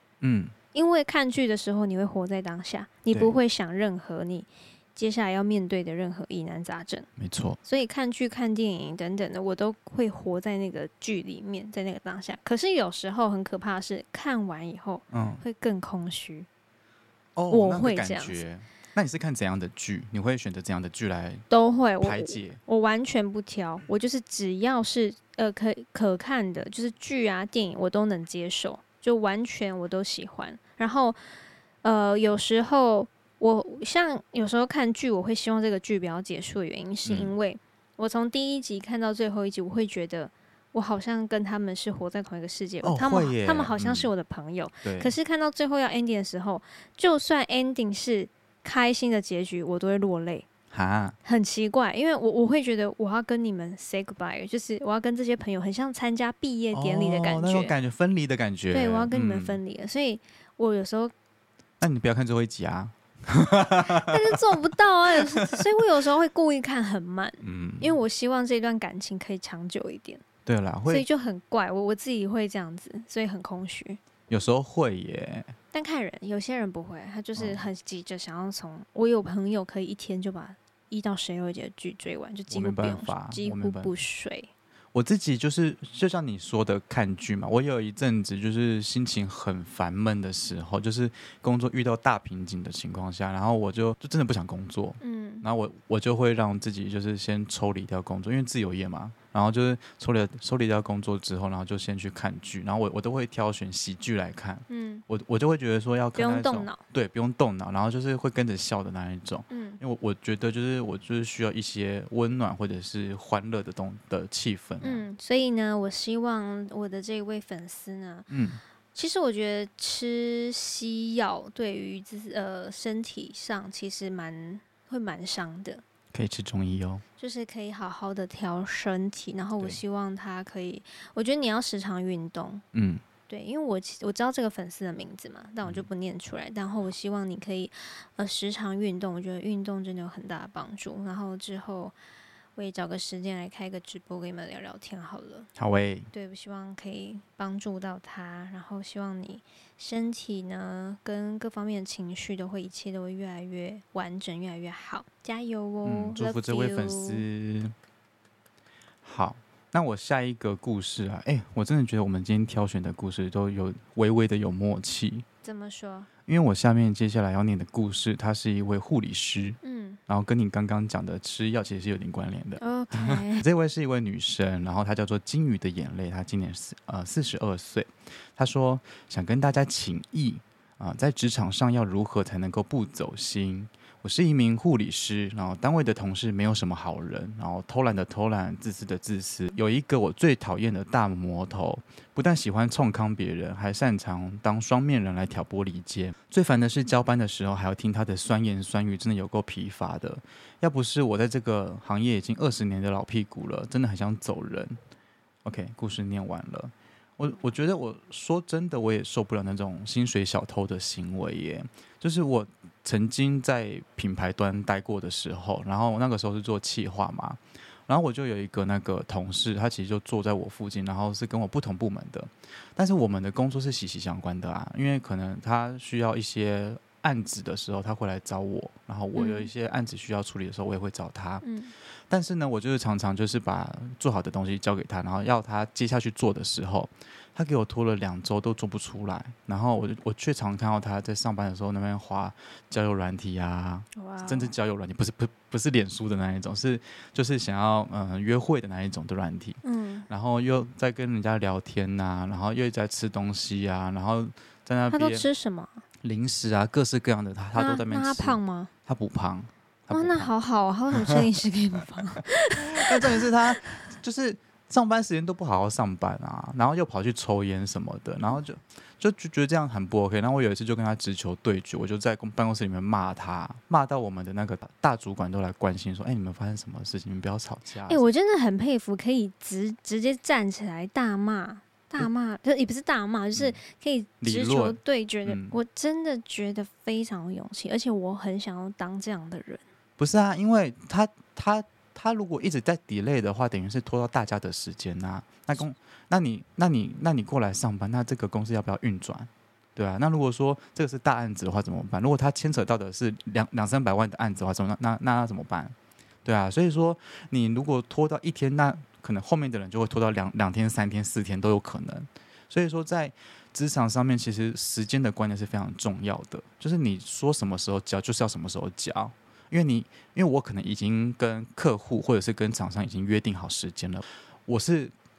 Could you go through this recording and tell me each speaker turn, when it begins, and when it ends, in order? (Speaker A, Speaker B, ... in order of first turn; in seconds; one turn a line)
Speaker A: 0.2-0.6
Speaker B: 0.7-7.1
Speaker A: 7.2-7.6
Speaker B: 7.6-16.5
Speaker A: 15.1-15.4
Speaker A: 17.4-21.5
Speaker B: 17.5-18.4
Speaker B: 21.5-31.2
Speaker A: 22.0-22.6
Speaker B: 31.8-50.5
Speaker A: 37.0-37.4
Speaker A: 42.8-44.1
Speaker A: 44.8-45.1
Speaker A: 50.7-51.2
Speaker B: 51.2-57.7
Speaker A: 56.7-59.6
Speaker B: 58.7-61.1
Speaker A: 61.8-64.4
Speaker B: 63.9-70.2
Speaker A: 65.1-65.7
Speaker A: 67.4-68.0
Speaker A: 70.5-71.1
Speaker B: 70.9-74.0
Speaker A: 74.3-75.5
Speaker B: 75.7-84.5
Speaker A: 77.4-77.7
Speaker A: 82.5-83.9
Speaker A: 84.9-115.0
Speaker B: 95.0-95.5
Speaker B: 104.7-105.0
Speaker B: 106.2-106.8
Speaker B: 109.5-109.8
Speaker B: 114.8-118.3
Speaker A: 118.3-118.6
Speaker B: 118.9-125.8
Speaker A: 126.1-127.0
Speaker B: 127.2-132.6
Speaker A: 132.7-133.0
Speaker B: 133.3-141.9
Speaker B: 142.6-145.5
Speaker A: 145.6-146.1
Speaker B: 146.1-157.2
Speaker A: 155.8-157.8
Speaker A: 159.0-165.3
Speaker B: 165.4-166.1
Speaker A: 166.3-204.8
Speaker B: 169.6-170.0
Speaker B: 172.6-173.4
Speaker A: 205.4-231.4
Speaker B: 229.2-229.5
Speaker B: 231.4-231.7
Speaker A: 232.1-255.2
Speaker B: 243.9-244.6
Speaker B: 249.6-250.1
Speaker B: 254.9-255.8
Speaker A: 256.0-260.3
Speaker B: 257.6-258.7
Speaker B: 259.9-263.7
Speaker A: 262.6-278.1
Speaker B: 277.9-289.6
Speaker A: 284.2-285.6
Speaker A: 290.0-324.9